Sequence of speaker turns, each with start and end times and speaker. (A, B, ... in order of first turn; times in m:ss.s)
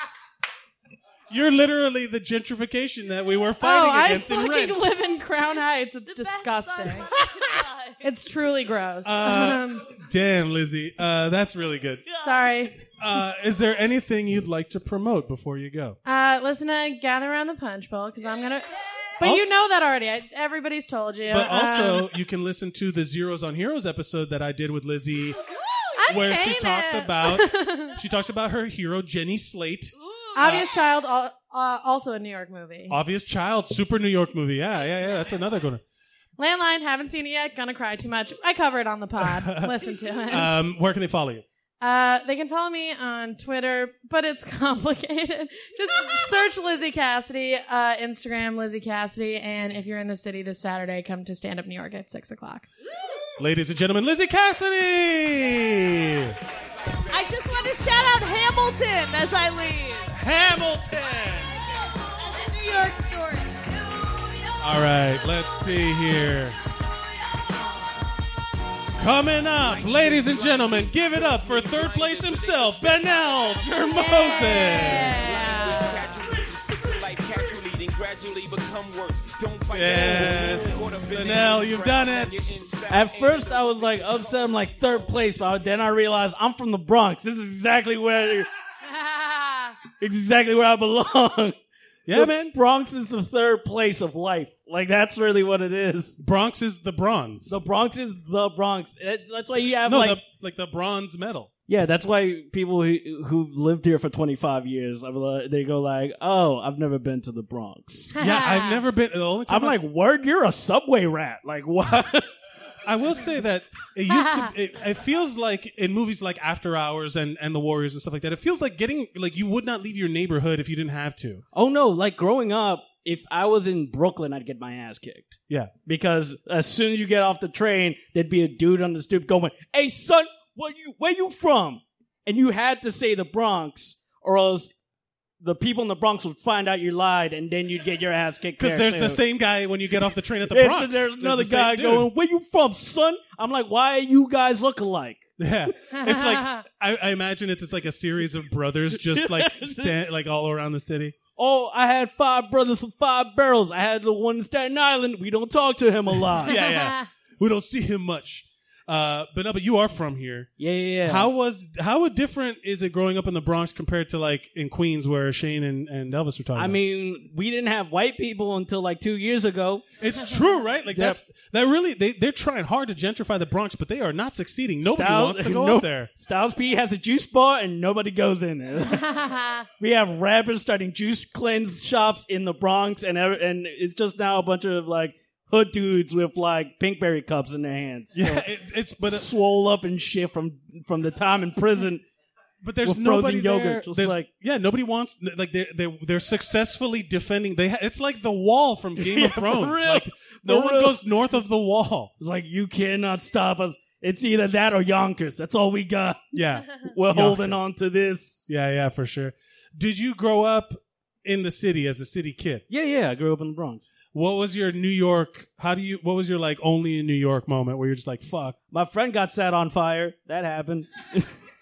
0:01.3-0:04.9 A
0:03.6-0:07.1 B
0:06.1-0:08.1 C
0:08.0-0:09.9 B
0:09.0-0:12.1 A
0:12.1-0:12.6 C
0:12.2-0:12.8 B
0:13.0-0:16.0 A
0:16.0-0:22.1 B
0:19.2-0:19.5 A
0:21.3-0:25.4 A
0:26.0-0:28.0 B
0:26.1-0:30.7 A
0:30.0-0:30.7 C
0:30.4-0:33.0 B
0:32.9-0:35.8 A
0:36.4-0:40.6 B
0:39.2-0:41.4 A
0:41.8-0:52.7 B
0:53.4-0:56.4 A
0:56.5-0:57.7 D
0:57.1-1:00.1 C
1:00.1-1:01.6 A
1:01.6-1:04.3 C
1:04.6-1:06.6 A
1:09.0-1:15.3 A
1:09.6-1:13.6 D
1:13.7-1:16.1 B
1:14.7-1:25.7 D
1:19.7-1:22.7 A
1:22.9-1:28.5 E
1:28.8-1:29.8 B
1:29.9-1:31.6 E
1:32.1-1:32.6 A
1:32.1-1:36.2 E
1:36.2-1:37.6 A
1:37.5-1:40.2 E
1:39.9-1:41.5 A
1:41.7-1:48.2 E
1:48.2-1:49.8 A
1:48.2-1:48.8 B
1:49.5-1:52.3 E
1:52.8-2:01.4 A
1:54.1-1:54.5 B
2:01.5-2:14.7 E
2:15.4-2:19.2 E
2:18.6-2:22.1 A
2:20.5-2:25.4 E
2:25.4-2:31.2 A
2:25.9-2:26.6 B
2:28.9-2:30.0 E
2:31.4-2:36.6 E
2:36.4-2:40.5 A
2:36.6-2:37.1 B
2:40.6-2:41.3 E
2:41.0-2:46.8 A
2:46.6-2:49.8 E
2:50.0-2:56.1 A
2:50.9-2:51.2 E
2:54.8-2:59.1 E
2:58.9-2:59.7 B
2:59.8-3:08.5 E
3:08.2-3:09.3 A
3:09.0-3:12.0 E
3:12.6-3:22.1 A
3:12.8-3:14.3 E
3:19.0-3:21.1 E
3:22.2-3:28.5 E
3:26.3-3:27.7 A
3:28.5-3:32.6 A
3:32.7-3:33.8 E
3:34.1-3:38.6 A
3:38.7-3:41.3 E